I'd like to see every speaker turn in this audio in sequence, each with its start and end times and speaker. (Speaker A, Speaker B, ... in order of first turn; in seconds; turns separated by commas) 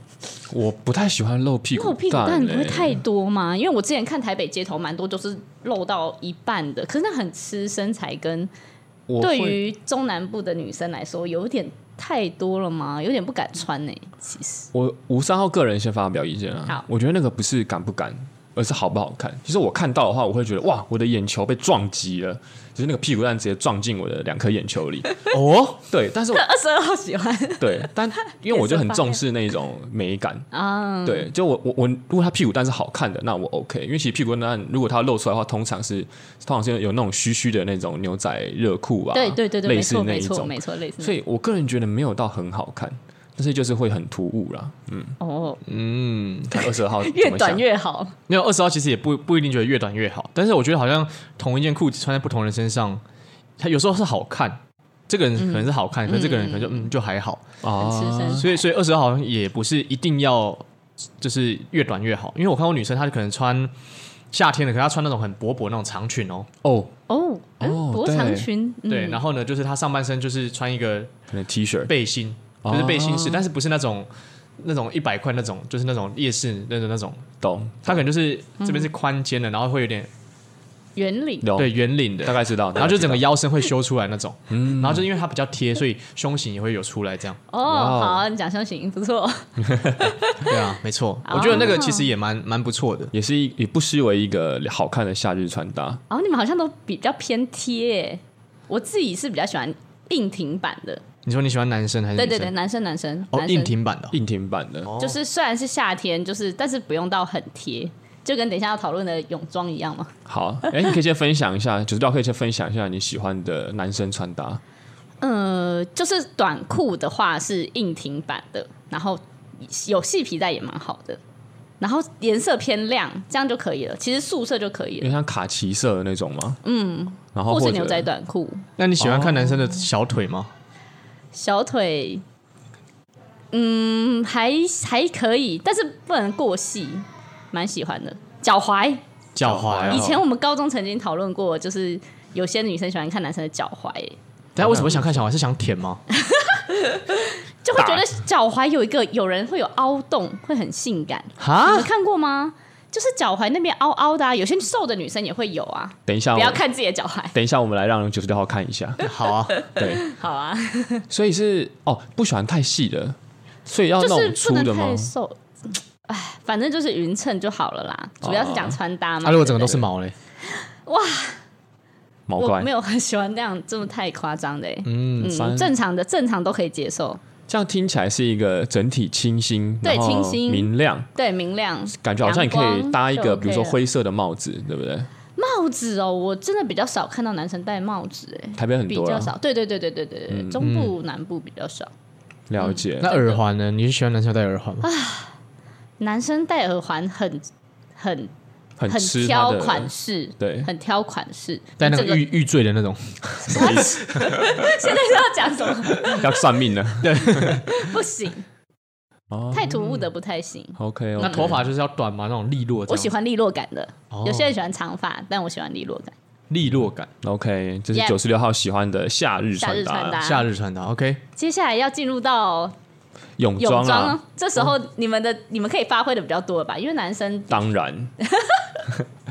Speaker A: 0.5-3.0, Speaker B: 1.8-8.5, Speaker A: 9.1-9.6, Speaker B: 9.2-14.7, Speaker A: 14.7-25.1, Speaker C: 25.3-25.8, Speaker A: 25.9-26.4, Speaker B: 26.3-29.2, Speaker A: 27.6-30.5, Speaker B: 30.5-31.3, Speaker A: 31.1-45.2, Speaker B: 39.1-41.1, Speaker B: 45.2-45.6, Speaker C: 45.7-46.6, Speaker A: 46.5-47.6, Speaker B: 46.9-48.1, Speaker C: 48.3-53.0, Speaker C: 53.6-57.4, Speaker B: 55.4-56.9, Speaker A: 57.6-58.5, Speaker B: 57.8-58.6, Speaker C: 58.4-60.6, Speaker C: 61.2-63.7, Speaker C: 64.3-66.5, Speaker A: 66.6-66.9, Speaker B: 67.1-69.2, Speaker A: 67.6-68.5, Speaker C: 68.9-71.1, Speaker A: 71.3-71.9, Speaker C: 71.9-77.3, Speaker A: 72.6-73.5, Speaker A: 77.4-78.1, Speaker C: 77.8-80.1, Speaker B: 78.6-78.9, Speaker B: 81.0-81.5, Speaker A: 81.4-83.2, Speaker C: 81.6-87.4, Speaker A: 84.5-85.1, Speaker B: 87.5-90.6, Speaker A: 87.6-88.2, Speaker A: 89.6-90.2, Speaker C: 90.4-93.1, Speaker B: 91.2-92.1, Speaker A: 93.1-96.0, Speaker B: 96.1-101.0, Speaker C: 101.2-102.5, Speaker B: 102.2-103.7, Speaker C: 103.3-104.1, Speaker A: 104.1-105.0, Speaker C: 104.9-105.2, Speaker B: 105.0-110.1, Speaker A: 110.3-114.6, Speaker B: 115.2-121.2, Speaker B: 121.8-125.1, Speaker A: 125.0-126.6, Speaker B: 126.6-128.6, Speaker A: 127.3-128.1, Speaker C: 128.8-130.5, Speaker A: 129.0-129.4, Speaker B: 131.3-132.2, Speaker B: 133.5-139.0, Speaker C: 139.4-140.2, Speaker A: 139.4-140.2, Speaker B: 139.9-144.2, Speaker C: 144.6-146.0, Speaker A: 144.6-145.2, Speaker B: 146.1-157.3, Speaker A: 147.8-148.1, Speaker C: 151.4-151.9, Speaker A: 156.1-156.6, Speaker A: 157.3-159.0, Speaker C: 159.0-159.6, Speaker B: 159.5-161.1, Speaker A: 159.7-160.0, Speaker A: 161.1-165.1, Speaker B: 164.0-169.8, Speaker A: 168.2-168.8, Speaker C: 169.2-170.1, Speaker B: 170.5-171.4, Speaker A: 172.3-172.7, Speaker B: 172.4-177.2, Speaker C: 174.8-175.4, Speaker A: 175.2-175.7, Speaker A: 177.5-181.1, Speaker B: 179.8-183.8, Speaker A: 181.9-185.1, Speaker B: 185.4-191.9, Speaker A: 188.6-189.3, Speaker A: 190.3-190.7, Speaker C: 190.6-190.9, Speaker A: 192.5-193.1, Speaker B: 192.6-193.4, Speaker C: 193.0-194.9, Speaker B: 194.8-195.3, Speaker B: 196.0-197.5, Speaker B: 198.0-198.3, Speaker A: 198.8-200.7, Speaker B: 198.9-202.3, Speaker C: 201.8-204.3, Speaker B: 203.5-206.3, Speaker A: 203.5-204.7, Speaker A: 205.9-207.7, Speaker C: 207.0-207.8, Speaker B: 207.5-208.4, Speaker A: 209.3-210.1, Speaker B: 209.5-211.5, Speaker A: 210.8-211.6, Speaker C: 211.2-213.1, Speaker B: 212.9-216.1, Speaker C: 214.1-214.6, Speaker C: 216.5-217.1, Speaker A: 217.2-220.2, Speaker B: 219.6-220.5, Speaker C: 220.2-221.2, Speaker B: 221.4-222.8, Speaker A: 223.4-224.2, Speaker B: 223.6-227.6, Speaker A: 227.5-228.1, Speaker B: 228.2-228.7